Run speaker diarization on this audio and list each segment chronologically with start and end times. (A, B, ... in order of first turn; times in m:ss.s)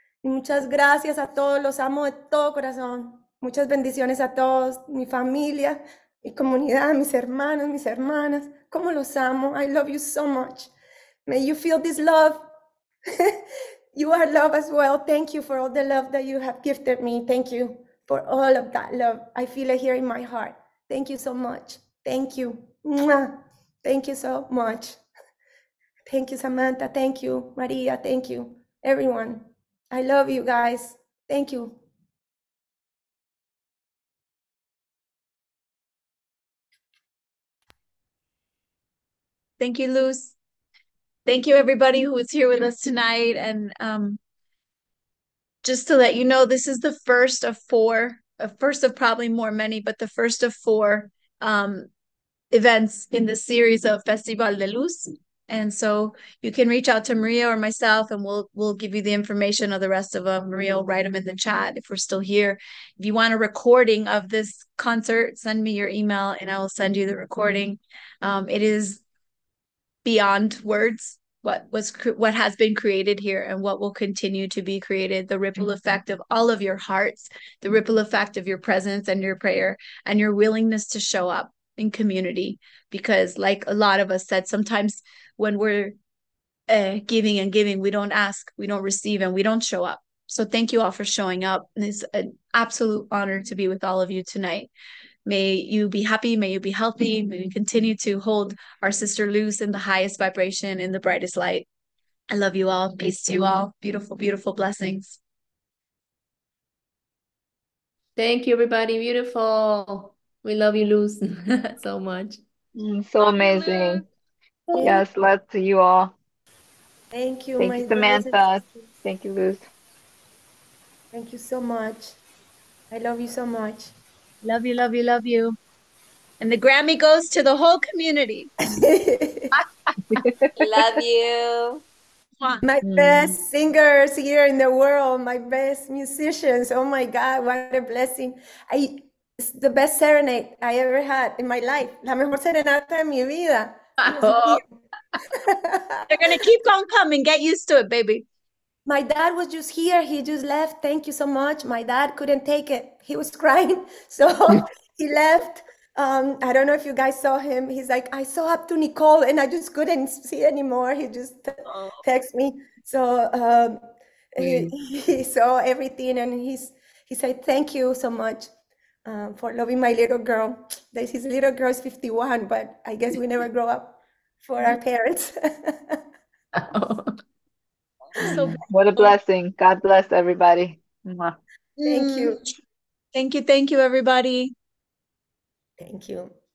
0:00.2-0:10.7 A
0:11.3-0:12.4 A
0:13.9-0:25.0 A
0:26.0-0:31.8 A
0:39.6-0:40.3 B
0:41.2-0:44.2 B
0:45.6-0:51.9 B
0:52.5-1:09.0 B
1:10.0-1:26.0 B
1:26.7-1:34.7 B
1:35.2-1:41.6 B
1:42.3-1:45.2 B
1:48.2-1:52.4 C
1:52.8-1:54.0 D
1:54.8-1:56.1 D
1:57.1-1:58.8 A
1:57.6-1:59.7 D
2:01.1-2:02.2 A
2:02.9-2:03.9 A
2:04.4-2:05.6 B
2:06.4-2:08.5 B
2:08.7-2:09.5 A
2:12.6-2:24.6 A
2:12.9-2:13.2 D
2:25.5-2:26.4 A
2:26.1-2:28.2 B
2:28.8-2:43.8 A
2:44.4-2:48.5 A
2:44.4-2:44.7 C
2:49.0-2:56.0 A
2:56.7-2:57.0 C
2:58.2-2:58.6 B
2:58.6-3:01.3 D
3:01.8-3:02.4 B
3:01.8-3:02.4 A
3:03.1-3:04.5 B
3:05.8-3:06.3 A